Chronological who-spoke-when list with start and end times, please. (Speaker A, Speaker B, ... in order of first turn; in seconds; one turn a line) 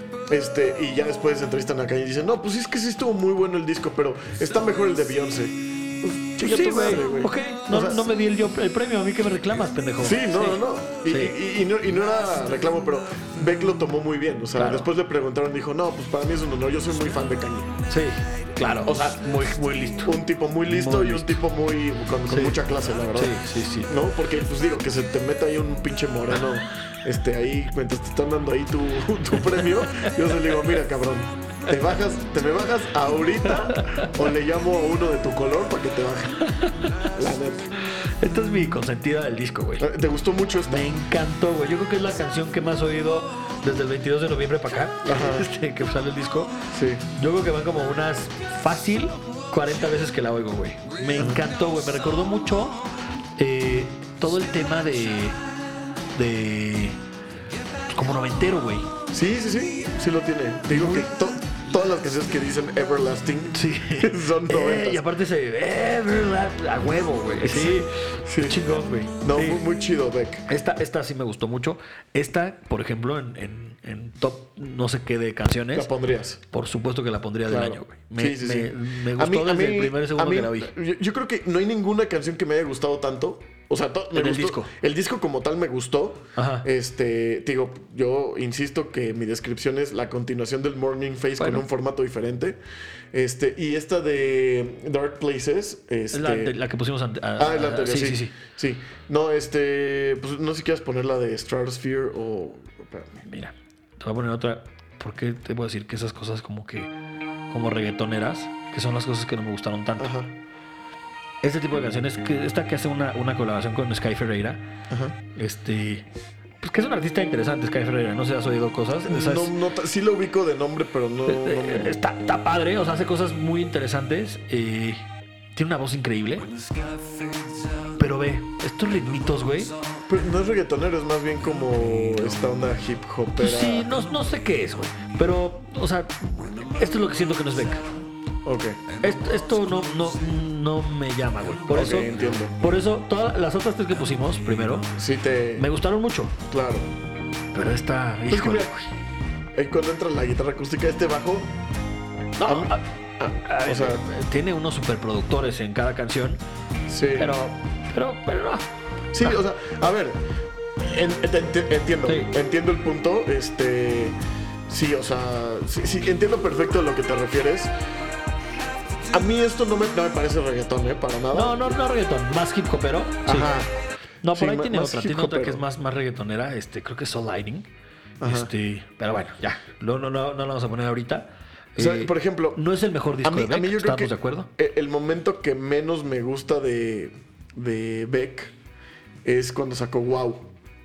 Speaker A: 0.3-8.1
Speaker B: 6.4-11.3
Speaker A: 10.0-17.7
Speaker B: 14.6-14.9
Speaker B: 17.9-20.1
Speaker A: 18.7-36.4
Speaker B: 20.7-21.4
Speaker B: 22.3-22.6
Speaker B: 23.1-23.9
Speaker B: 33.6-34.1
Speaker B: 36.4-36.9
Speaker A: 37.1-37.7
Speaker B: 38.0-39.9
Speaker A: 39.8-40.9
Speaker B: 40.7-46.5
Speaker A: 45.0-45.5
Speaker A: 46.7-47.0
Speaker B: 47.1-52.8
Speaker A: 51.1-51.4
Speaker B: 53.4-55.4
Speaker B: 56.1-57.0
Speaker B: 57.9-58.9
Speaker A: 59.1-65.0
Speaker B: 60.7-61.1
Speaker B: 63.5-69.6
Speaker A: 67.4-68.6
Speaker A: 69.2-70.5
Speaker B: 70.5-75.9
Speaker A: 75.7-76.4
Speaker B: 76.5-80.7
Speaker A: 77.5-92.6
Speaker B: 84.1-84.7
Speaker B: 86.3-86.7
Speaker B: 91.4-91.6
Speaker A: 93.1-96.5
Speaker B: 96.1-98.3
Speaker A: 97.4-103.2
Speaker B: 103.2-106.9
Speaker B: 107.5-110.1
Speaker A: 110.0-110.3
Speaker B: 111.4-114.7
Speaker A: 114.9-115.2
Speaker B: 115.3-116.0
Speaker B: 116.6-119.5
Speaker A: 119.0-122.0
Speaker B: 121.3-126.5
Speaker B: 127.9-129.7
Speaker A: 130.1-133.9
Speaker B: 133.4-137.8
Speaker A: 138.4-138.8
Speaker B: 139.0-144.9
Speaker A: 141.7-142.6
Speaker A: 144.9-145.7
Speaker B: 145.6-146.4
Speaker A: 146.5-146.9
Speaker B: 147.5-148.8
Speaker A: 148.3-148.8
Speaker A: 149.5-151.5
Speaker B: 152.4-156.4
Speaker A: 152.4-154.0
Speaker A: 156.9-157.3
Speaker B: 157.2-159.4
Speaker A: 159.1-160.2
Speaker A: 160.8-164.2
Speaker B: 162.1-162.3
Speaker A: 164.7-167.7
Speaker A: 169.1-171.6
Speaker B: 171.3-173.6
Speaker A: 173.2-173.7
Speaker B: 174.2-177.7
Speaker A: 174.3-175.6
Speaker A: 178.2-178.5
Speaker B: 178.2-184.5
Speaker A: 181.8-182.6
Speaker A: 183.2-188.5
Speaker A: 189.2-190.5